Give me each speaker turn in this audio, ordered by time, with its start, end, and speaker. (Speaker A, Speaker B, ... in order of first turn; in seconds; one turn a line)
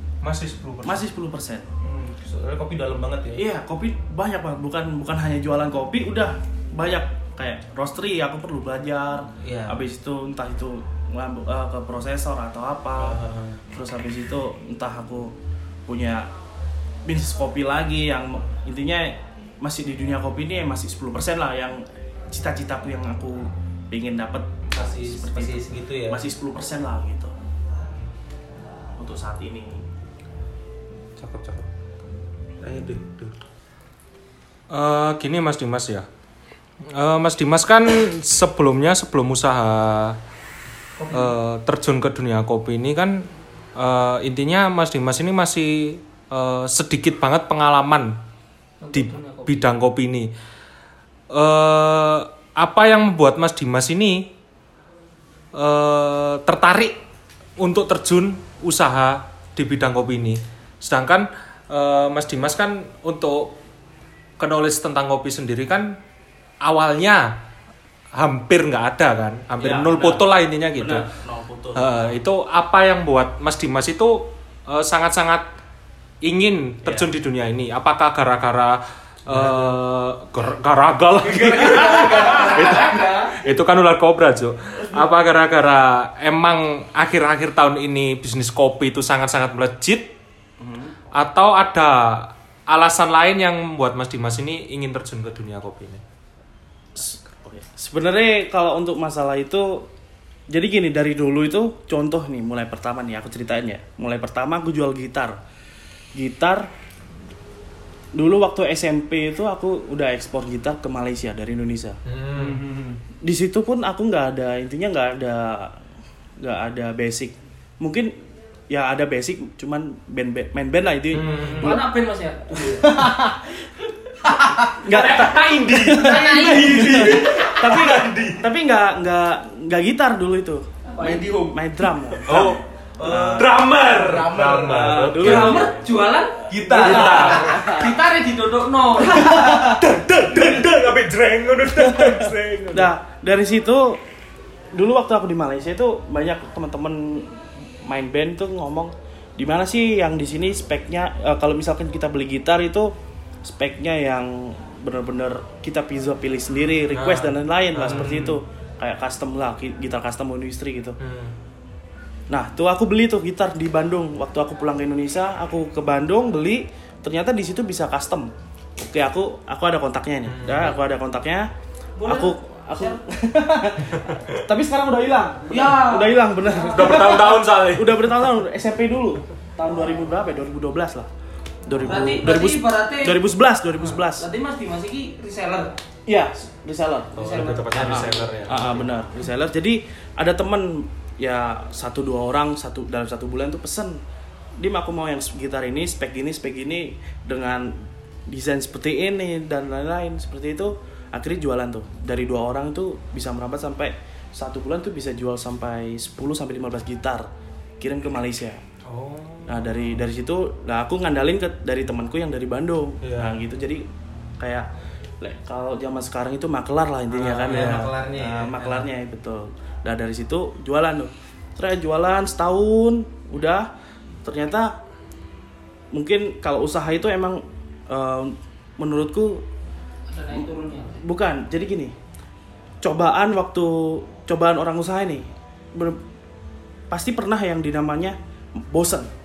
Speaker A: 0.2-1.0
Speaker B: 0.8-1.7
Speaker C: 1.8-3.4
Speaker B: 3.3-15.3
Speaker C: 9.4-9.8
Speaker C: 13.0-13.6
Speaker B: 15.8-16.3
Speaker B: 17.1-27.3
Speaker C: 24.7-26.2
Speaker B: 29.0-29.8
Speaker C: 31.2-31.7
Speaker C: 32.6-33.4
Speaker A: 34.7-36.0
Speaker A: 36.9-40.2
Speaker C: 41.0-41.3
Speaker A: 41.1-48.2
Speaker D: 48.8-49.6
Speaker A: 48.9-50.3
Speaker A: 51.3-54.3
Speaker A: 55.5-57.0
Speaker A: 57.6-63.6
Speaker A: 64.4-66.0
Speaker A: 66.6-67.3
Speaker A: 68.2-71.0
Speaker B: 69.6-70.2
Speaker B: 70.8-72.2
Speaker A: 71.7-75.5
Speaker A: 76.2-90.1
Speaker B: 79.3-79.6
Speaker B: 81.3-82.9
Speaker C: 81.3-82.5
Speaker D: 82.3-83.3
Speaker B: 90.6-90.9
Speaker A: 91.1-96.0
Speaker B: 96.9-99.9
Speaker B: 100.5-105.4
Speaker B: 106.1-106.7
Speaker B: 108.1-112.0
Speaker A: 112.0-112.6
Speaker C: 112.3-113.0
Speaker B: 113.2-115.8
Speaker B: 116.4-118.1
Speaker B: 118.7-121.8
Speaker A: 121.1-121.8
Speaker C: 121.3-121.6
Speaker D: 121.6-123.4
Speaker B: 122.6-123.2
Speaker A: 124.7-128.4
Speaker B: 124.8-130.7
Speaker D: 124.9-127.6
Speaker D: 130.9-131.4
Speaker C: 131.0-131.6
Speaker B: 131.4-133.5
Speaker C: 132.2-135.2
Speaker A: 132.2-132.6
Speaker A: 133.3-135.7
Speaker B: 134.6-135.7
Speaker D: 135.2-139.7
Speaker C: 136.5-137.6
Speaker A: 136.7-137.7
Speaker B: 136.7-137.8
Speaker A: 139.0-142.9
Speaker B: 141.7-144.0
Speaker B: 144.7-152.9
Speaker B: 153.4-161.0
Speaker A: 156.9-158.4
Speaker A: 161.0-161.3
Speaker B: 162.3-171.5
Speaker A: 170.3-170.8
Speaker D: 172.0-173.0
Speaker B: 172.0-181.1
Speaker A: 174.0-174.4
Speaker D: 175.5-177.3
Speaker A: 176.7-178.2
Speaker B: 181.7-184.2
Speaker A: 181.8-182.2
Speaker D: 181.8-183.2
Speaker D: 184.2-185.7
Speaker B: 186.1-194.0
Speaker A: 187.2-188.9
Speaker D: 187.2-188.2
Speaker B: 194.6-207.3
Speaker B: 207.8-208.6
Speaker A: 208.8-210.0
Speaker B: 209.4-213.8
Speaker A: 213.0-213.3
Speaker B: 214.4-214.7
Speaker B: 215.2-223.7
Speaker C: 217.1-218.8
Speaker A: 217.5-217.8
Speaker B: 224.2-224.7
Speaker B: 225.9-229.4
Speaker D: 230.1-231.0
Speaker B: 230.3-231.9
Speaker B: 232.8-236.0
Speaker B: 236.9-239.1